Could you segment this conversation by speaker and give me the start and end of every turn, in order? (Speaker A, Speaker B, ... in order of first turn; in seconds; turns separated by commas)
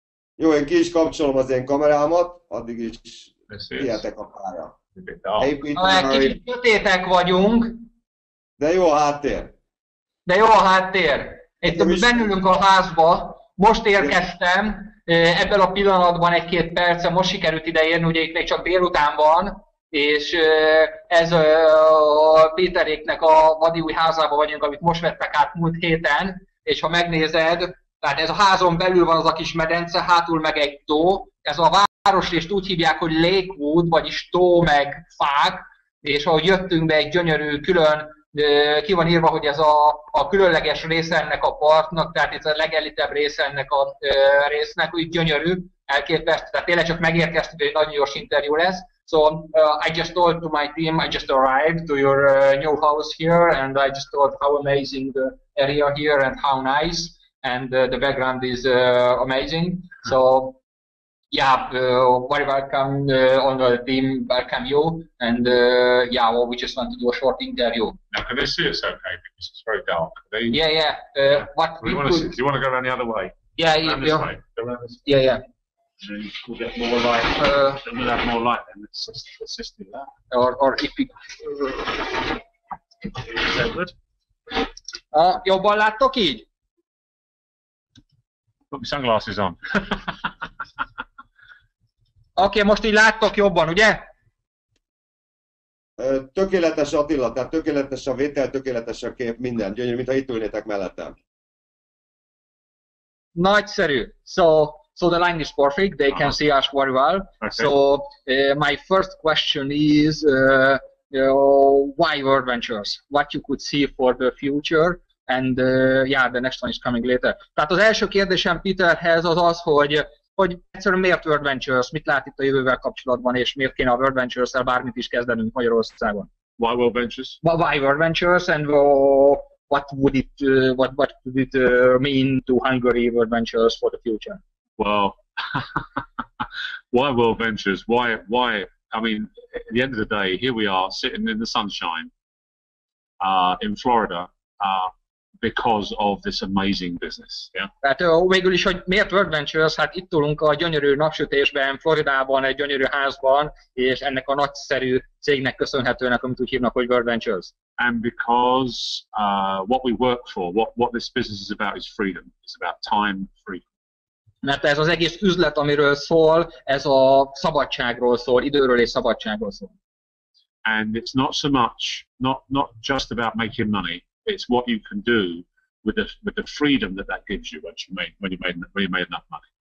Speaker A: 0.4-4.8, Speaker B: 3.5-4.0, Speaker B: 5.0-5.5, Speaker A: 5.4-6.4, Speaker C: 5.7-7.9, Speaker A: 8.6-9.5, Speaker C: 10.2-60.6, Speaker A: 11.6-12.3, Speaker C: 61.3-68.0, Speaker B: 68.1-70.6, Speaker C: 70.5-72.3, Speaker B: 71.8-75.0, Speaker C: 73.5-74.3, Speaker C: 75.0-75.4, Speaker B: 76.0-80.1, Speaker C: 77.4-77.8, Speaker C: 80.3-82.1, Speaker B: 83.3-83.9, Speaker C: 85.1-86.5, Speaker B: 88.7-90.2, Speaker C: 92.3-94.1, Speaker A: 96.0-101.2, Speaker C: 103.3-126.3, Speaker B: 107.4-107.7, Speaker B: 126.6-127.4, Speaker C: 127.4-134.4, Speaker B: 134.8-142.1, Speaker B: 143.2-147.7, Speaker C: 147.8-157.5, Speaker B: 157.8-163.6, Speaker C: 164.4-169.7, Speaker B: 170.6-179.4